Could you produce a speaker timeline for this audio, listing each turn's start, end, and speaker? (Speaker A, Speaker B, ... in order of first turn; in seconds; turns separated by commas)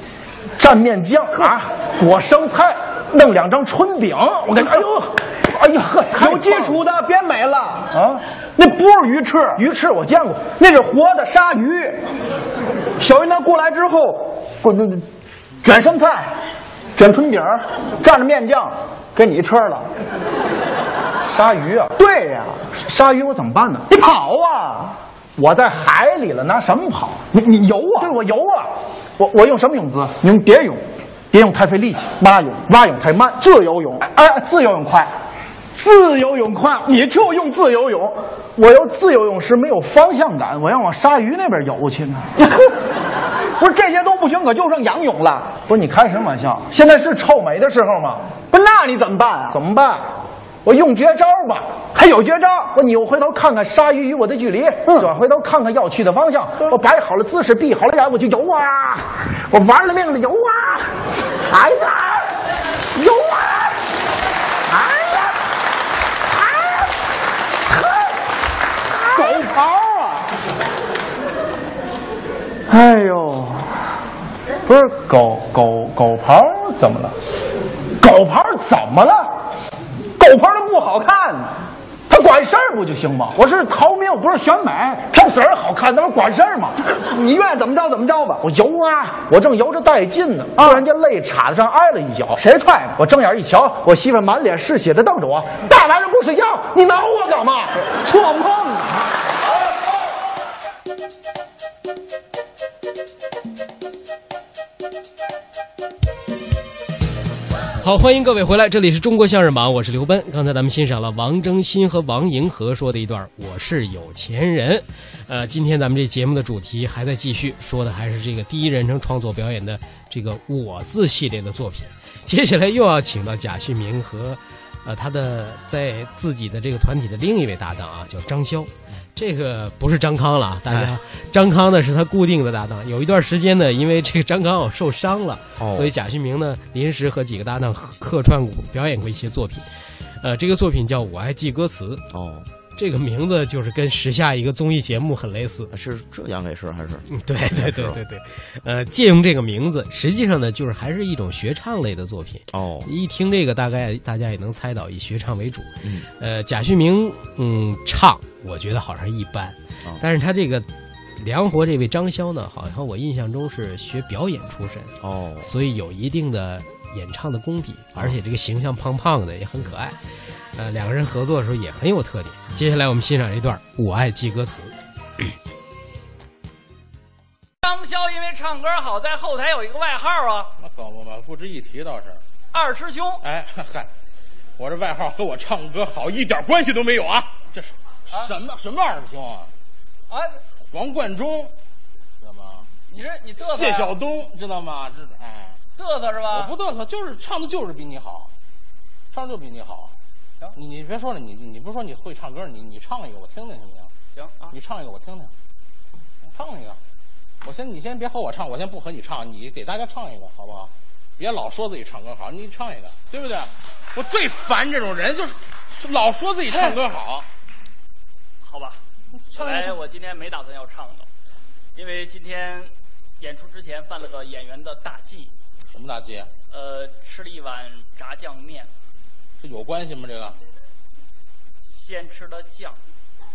Speaker A: 0.6-6.8, Speaker B: 6.1-7.9, Speaker A: 7.9-8.2, Speaker B: 8.6-9.6, Speaker A: 9.6-10.5, Speaker B: 10.6-12.1, Speaker B: 13.0-15.1, Speaker B: 15.6-16.3, Speaker B: 17.0-19.9, Speaker A: 21.3-21.9, Speaker B: 22.0-22.6, Speaker A: 22.8-23.9, Speaker B: 23.9-25.0, Speaker A: 25.4-27.2, Speaker B: 27.3-28.1, Speaker A: 28.0-30.1, Speaker B: 30.2-30.8, Speaker A: 31.3-32.1, Speaker B: 32.2-32.7, Speaker A: 32.7-33.4, Speaker B: 33.4-34.1, Speaker A: 34.0-35.1, Speaker A: 35.8-36.8, Speaker B: 36.8-38.2, Speaker A: 38.6-42.3, Speaker B: 42.4-42.8, Speaker B: 43.6-45.5, Speaker A: 45.7-48.2, Speaker B: 48.5-49.6, Speaker A: 49.5-50.1, Speaker A: 50.6-51.7, Speaker B: 51.9-52.8, Speaker A: 52.7-61.0, Speaker A: 61.5-62.3, Speaker A: 62.9-63.7, Speaker B: 69.1-70.2, Speaker A: 69.2-69.6, Speaker B: 72.7-73.7, Speaker A: 74.7-77.2, Speaker A: 78.0-79.3, Speaker B: 80.2-81.5, Speaker A: 82.1-86.8, Speaker B: 87.0-88.4, Speaker A: 88.4-92.4, Speaker B: 90.6-90.9, Speaker B: 92.4-93.0, Speaker A: 93.0-97.7, Speaker B: 97.8-99.0, Speaker C: 107.8-139.7, Speaker D: 130.7-130.9, Speaker D: 135.6-135.9, Speaker C: 140.2-142.1, Speaker D: 142.1-142.5, Speaker C: 142.7-145.7, Speaker D: 145.7-148.0, Speaker C: 147.1-160.7, Speaker D: 152.5-152.9, Speaker D: 155.8-156.1, Speaker C: 161.2-170.0, Speaker D: 165.0-165.5, Speaker C: 170.6-174.7, Speaker E: 177.6-180.5, Speaker F: 180.6-182.2, Speaker E: 182.5-183.2, Speaker F: 183.2-183.9, Speaker F: 184.6-189.5, Speaker E: 190.1-190.4, Speaker F: 190.7-191.5, Speaker F: 192.2-192.7, Speaker E: 192.9-194.0, Speaker F: 193.4-195.6, Speaker E: 195.8-196.5, Speaker F: 196.3-198.3, Speaker F: 199.1-200.0, Speaker F: 200.6-203.9, Speaker E: 204.1-204.6, Speaker F: 204.5-205.3, Speaker F: 206.3-206.8, Speaker F: 207.4-217.3, Speaker E: 216.5-216.8, Speaker E: 218.4-218.8, Speaker F: 219.3-219.8, Speaker E: 219.3-221.1, Speaker E: 221.8-225.3, Speaker F: 225.7-226.3, Speaker E: 226.5-228.7, Speaker F: 229.4-230.4, Speaker E: 231.6-232.8